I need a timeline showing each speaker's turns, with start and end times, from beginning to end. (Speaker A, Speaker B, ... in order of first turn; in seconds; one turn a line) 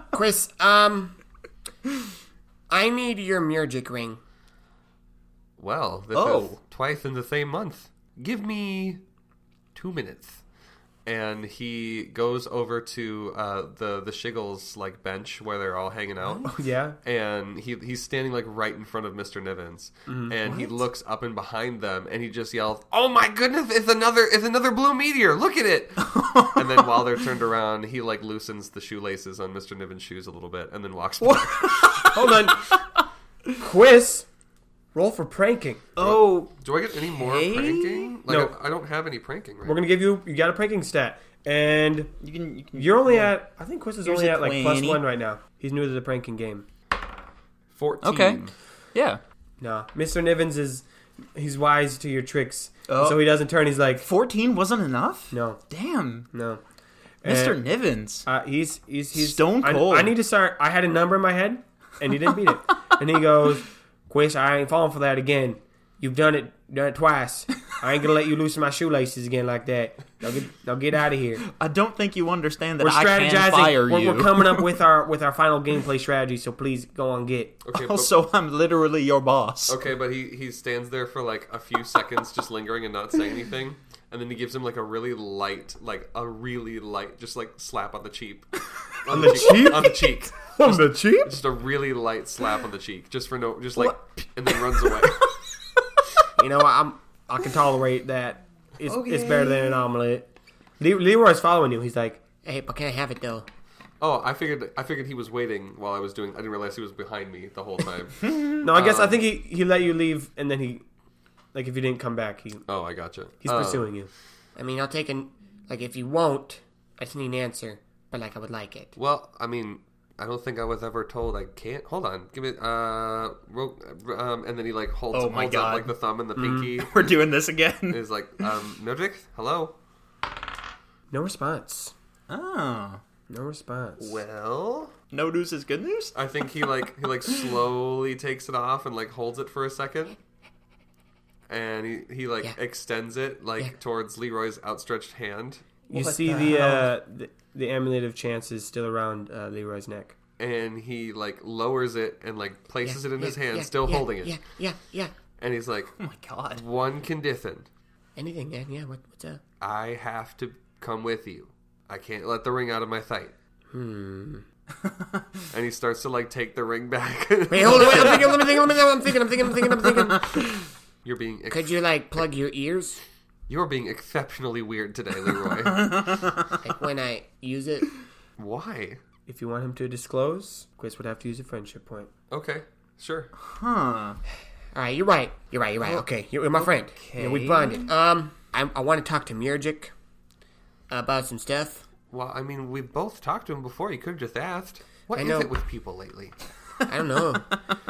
Speaker A: 0.1-1.1
Speaker A: 2.7-4.2
Speaker B: 5.6-9.0
Speaker C: 6.1-6.6
Speaker B: 9.7-10.4
Speaker B: 11.1-32.0
Speaker D: 16.2-17.0
Speaker D: 20.1-20.6
Speaker C: 26.0-26.8
Speaker C: 31.2-33.0
Speaker D: 32.1-32.7
Speaker D: 33.6-34.3
Speaker D: 34.9-35.9
Speaker C: 36.0-36.5
Speaker B: 36.0-39.8
Speaker C: 37.1-38.1
Speaker D: 38.3-38.5
Speaker D: 39.6-42.1
Speaker C: 42.2-43.3
Speaker D: 42.7-46.6
Speaker C: 44.0-45.0
Speaker B: 47.7-48.5
Speaker C: 48.0-48.4
Speaker C: 48.9-49.2
Speaker D: 49.6-54.1
Speaker C: 52.9-53.2
Speaker C: 54.0-56.3
Speaker D: 55.3-55.6
Speaker D: 56.3-56.6
Speaker D: 57.2-57.6
Speaker C: 57.2-58.2
Speaker D: 58.2-71.4
Speaker C: 59.1-60.1
Speaker C: 71.4-74.7
Speaker D: 72.8-77.5
Speaker B: 77.6-78.1
Speaker C: 77.7-79.8
Speaker B: 79.7-95.3
Speaker D: 89.1-91.3
Speaker C: 89.2-89.7
Speaker C: 93.8-95.3
Speaker A: 96.4-97.5
Speaker D: 97.3-102.2
Speaker C: 98.8-99.8
Speaker A: 102.4-103.5
Speaker B: 104.0-109.2
Speaker D: 108.6-110.8
Speaker D: 111.5-112.6
Speaker B: 112.7-113.9
Speaker D: 113.4-114.1
Speaker A: 114.5-118.9
Speaker B: 119.0-127.1
Speaker C: 125.1-125.9
Speaker D: 126.4-126.7
Speaker C: 126.5-128.0
Speaker B: 127.9-129.7
Speaker D: 131.1-131.9
Speaker C: 132.3-133.0
Speaker D: 133.3-134.2
Speaker B: 134.0-134.9
Speaker C: 135.1-136.1
Speaker B: 136.1-140.2
Speaker B: 141.5-145.7
Speaker D: 145.9-150.1
Speaker C: 145.9-146.9
Speaker B: 150.4-154.4
Speaker A: 152.8-155.1
Speaker B: 155.4-155.9
Speaker C: 156.0-156.6
Speaker B: 156.5-157.7
Speaker A: 158.2-159.4
Speaker B: 159.6-163.3
Speaker A: 163.7-164.4
Speaker C: 164.8-165.4
Speaker B: 165.5-168.7
Speaker A: 167.5-170.3
Speaker B: 171.0-172.2
Speaker A: 171.5-173.0
Speaker B: 173.5-176.1
Speaker C: 175.7-176.5
Speaker A: 176.6-177.9
Speaker B: 178.4-179.0
Speaker D: 179.3-182.1
Speaker B: 182.3-183.3
Speaker C: 183.4-184.2
Speaker A: 184.7-189.9
Speaker C: 186.6-187.9
Speaker A: 190.9-191.8
Speaker B: 192.1-196.3
Speaker A: 195.2-195.5
Speaker A: 196.8-197.6